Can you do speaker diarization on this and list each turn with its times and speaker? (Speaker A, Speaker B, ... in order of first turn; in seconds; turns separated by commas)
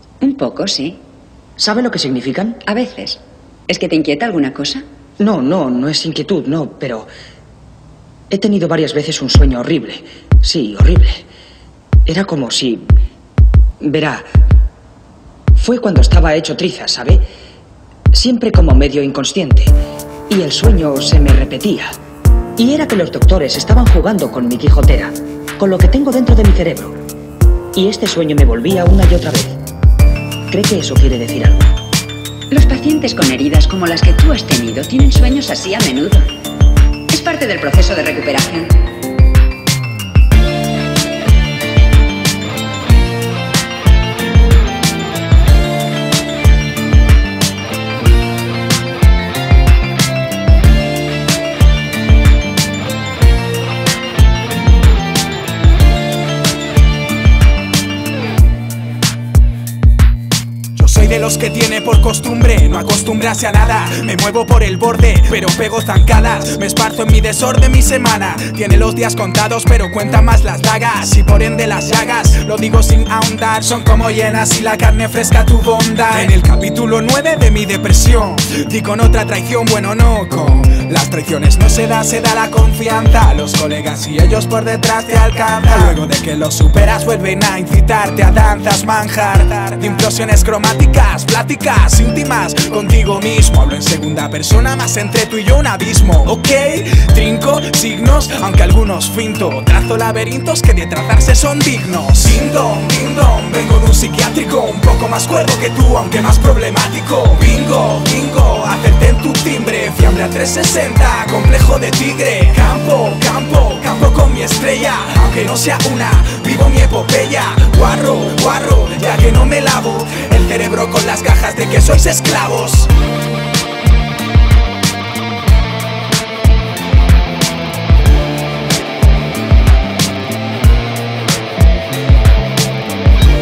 Speaker A: 0.2-1.0, Speaker B: 1.6-2.6, Speaker A: 2.6-4.8, Speaker B: 5.2-7.1, Speaker B: 8.3-11.2, Speaker B: 12.1-12.9, Speaker B: 13.8-14.2, Speaker B: 15.5-17.2, Speaker B: 18.1-19.7, Speaker B: 20.3-22.0, Speaker B: 22.6-27.0, Speaker B: 27.7-29.6, Speaker B: 30.5-31.7, Speaker A: 32.5-36.2, Speaker A: 37.1-38.8, Speaker C: 60.7-122.9